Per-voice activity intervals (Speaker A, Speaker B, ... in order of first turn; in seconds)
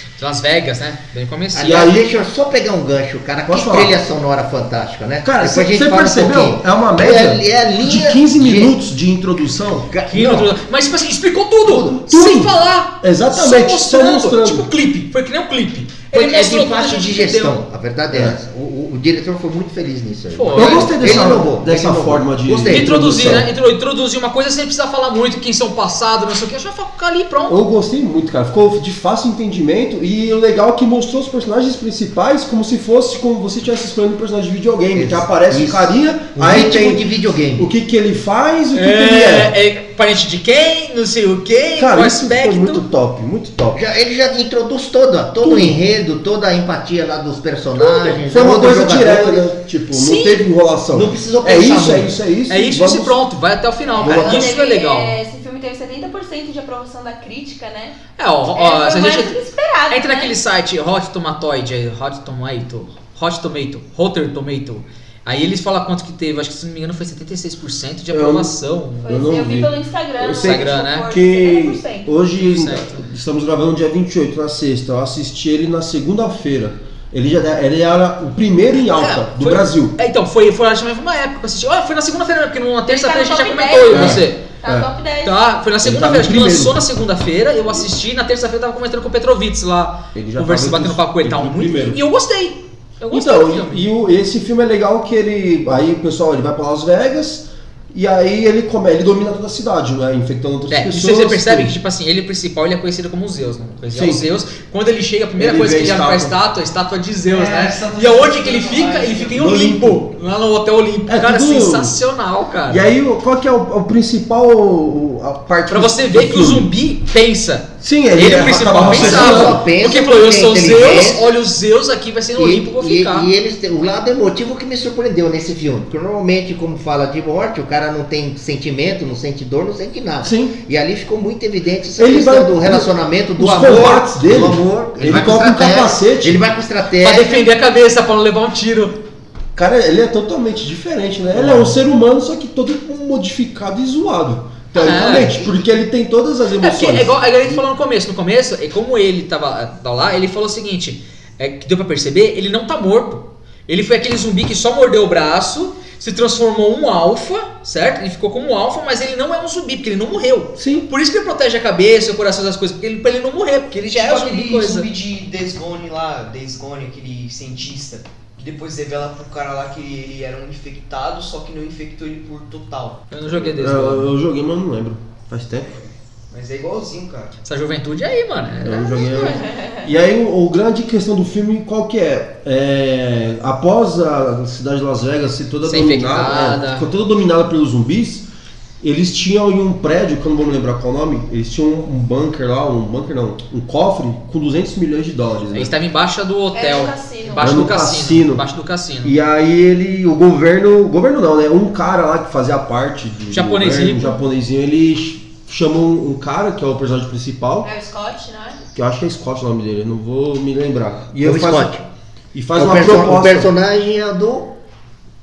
Speaker A: 0.2-1.9, 10.1-17.6, 20.3-21.4, 22.7-27.6, 38.7-42.8, 49.9-50.4, 52.5-55.1, 58.2-59.3, 59.9-69.2, 70.4-71.0, 72.4-73.1, 78.9-84.4, 85.2-93.9, 100.7-112.9, 115.7-123.3, 137.0-139.0, 144.7-145.4, 146.6-164.9, 173.1-174.1, 177.4-179.0, 185.6-186.9, 195.5-199.2, 203.3-204.2
Speaker B: 1.5-8.7, 9.9-10.5, 11.6-12.0, 16.1-23.5, 34.9-37.7, 43.7-49.5, 50.9-52.1, 118.8-121.3, 122.3-137.4, 144.8-145.5, 211.2-211.8, 212.5-214.6
Speaker C: 1.6-2.1, 3.4-4.0, 5.2-10.2, 11.9-14.7, 18.1-18.4, 20.5-23.5, 27.5-37.0, 37.6-39.5, 41.8-43.8, 45.4-45.8, 48.0-53.2, 54.0-54.5, 68.1-68.5, 69.0-80.0, 83.9-84.9, 85.8-86.8, 90.1-92.0, 93.1-101.8, 103.9-104.2, 105.4-106.3, 109.3-110.1, 111.1-112.0, 112.7-116.7, 117.8-119.6, 130.2-130.6, 132.0-136.4, 139.5-147.6, 160.6-160.9, 173.4-175.7, 178.6-188.3, 188.8-195.7, 197.4-198.4, 199.0-207.7, 208.7-211.7, 212.3-213.5
Speaker D: 53.9-58.0, 58.5-60.3, 69.0-72.1, 82.9-85.4, 178.8-179.8, 196.5-197.7, 207.6-208.6
Speaker E: 107.2-109.5, 163.9-173.3, 176.3-177.3